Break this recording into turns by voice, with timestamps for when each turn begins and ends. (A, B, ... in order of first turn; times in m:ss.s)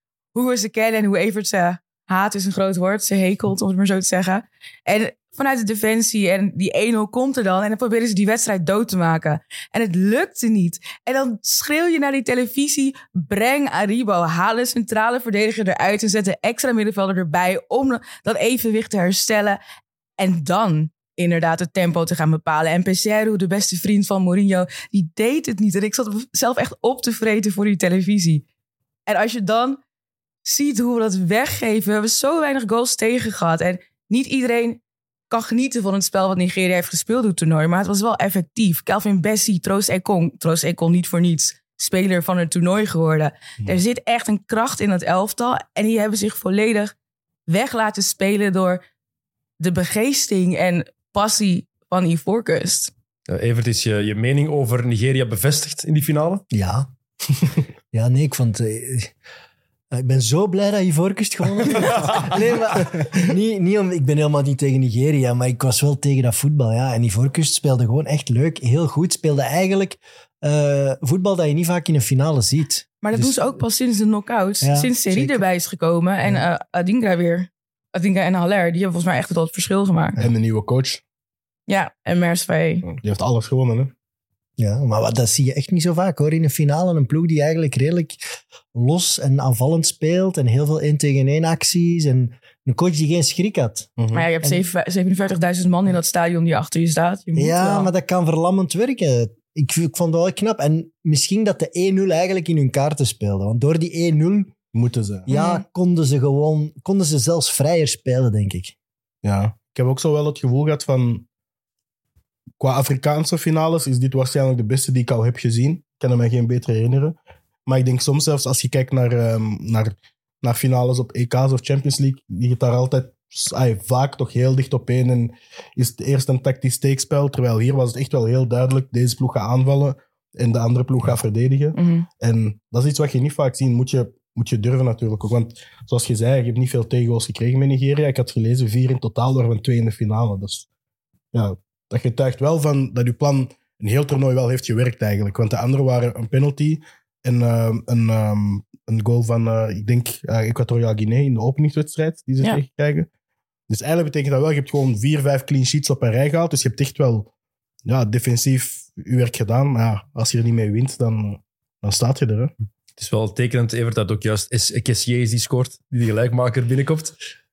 0:00.3-0:19.6 A
0:20.2-0:28.4 A
0:29.1-0:29.8 A
0:30.4-0:46.9 A
0:47.5-0:48.8 A
0:49.6-0:52.9 A
0:53.3-0:56.4 B
0:56.5-0:56.9 C
0:57.9-0:59.1 C
0:59.9-1:13.4 C
1:01.8-1:02.2 B
1:13.0-1:20.2 A
1:14.6-1:15.4 C
1:20.2-1:21.0 D
1:21.7-1:22.9 A
1:22.8-1:23.9 D
1:24.6-1:28.2 C
1:28.7-1:34.6 C
1:34.0-1:34.3 D
1:34.1-1:37.9 A
1:37.4-1:44.5 C
1:44.7-1:45.3 D
1:45.3-1:48.8 C
1:45.3-1:45.6 A
1:49.2-1:51.3 D
1:52.6-2:20.7 D
2:11.8-2:12.1 A
2:21.3-2:33.1 D
2:33.7-2:37.3 D
2:37.9-2:42.5 D
2:43.0-2:47.2 B